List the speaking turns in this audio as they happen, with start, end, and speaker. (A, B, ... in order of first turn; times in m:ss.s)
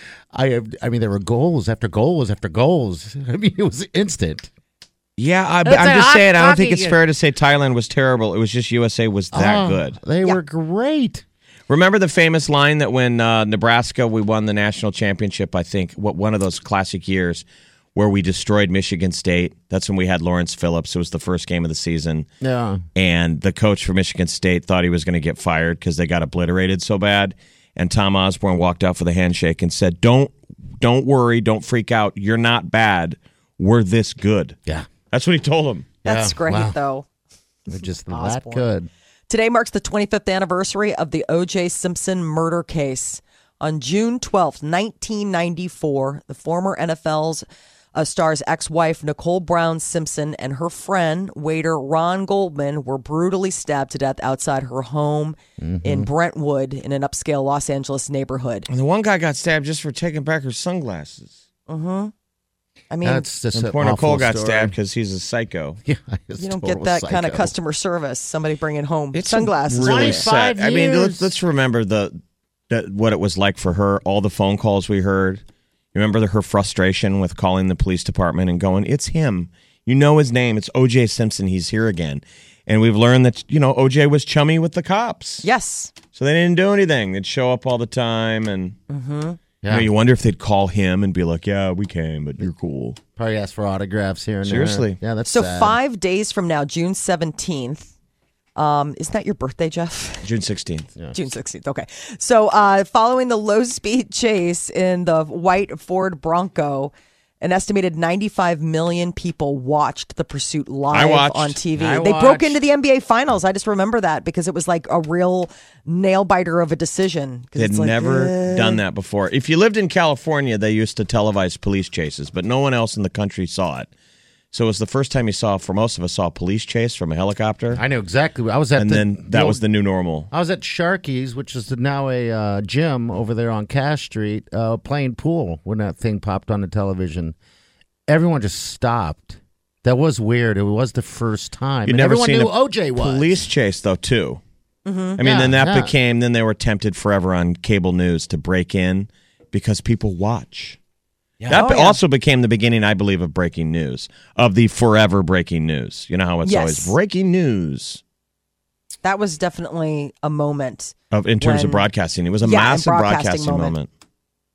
0:00.3-0:04.5 A
0:05.2-0:10.0 B
0:05.6-0:07.0 A
0:09.3-0:11.2 A
0:11.7-0:17.4 B
0:18.0-0:22.3 B
0:22.4-0:22.8 A
0:23.0-0:34.6 B
0:35.1-0:35.9 B
0:36.0-0:37.1 C
0:36.0-0:36.8 A
0:37.7-0:38.9 A
0:38.1-0:38.6 C
0:39.3-0:58.7 C
0:55.6-0:56.1 A
0:58.7-1:01.4 B
1:01.7-1:02.1 C
1:02.9-1:03.3 C
1:03.0-1:04.8 A
1:03.5-1:05.8 B
1:05.8-1:07.5 A
1:06.4-1:10.3 C
1:09.1-1:12.2 B
1:09.8-1:11.4 A
1:12.7-1:15.4 B
1:15.9-1:25.5 B
1:25.4-1:25.9 C
1:26.1-1:28.8 B
1:28.9-1:29.4 C
1:29.6-1:29.9 A
1:29.7-1:33.0 B
1:33.2-1:35.8 A
1:34.4-1:35.0 B
1:35.2-1:37.9 C
1:38.6-1:40.3 C
1:40.2-1:40.9 B
1:41.1-1:58.8 C
1:50.9-1:51.6 B
1:51.8-1:52.6 A
1:57.6-2:03.9 B
2:04.5-2:07.8 B
2:07.7-2:09.6 A
2:08.8-2:10.3 B
2:10.3-2:17.4 A
2:18.1-2:23.5 A
2:21.8-2:24.4 B
2:24.8-2:25.2 C
2:25.2-2:30.8 B
2:25.2-2:25.9 A
2:31.4-2:31.7 A
2:31.5-2:38.0 B
2:31.5-2:32.0 C
2:36.4-2:37.0 C
2:39.0-2:41.9 C
2:41.1-2:43.9 B
2:42.4-2:43.8 C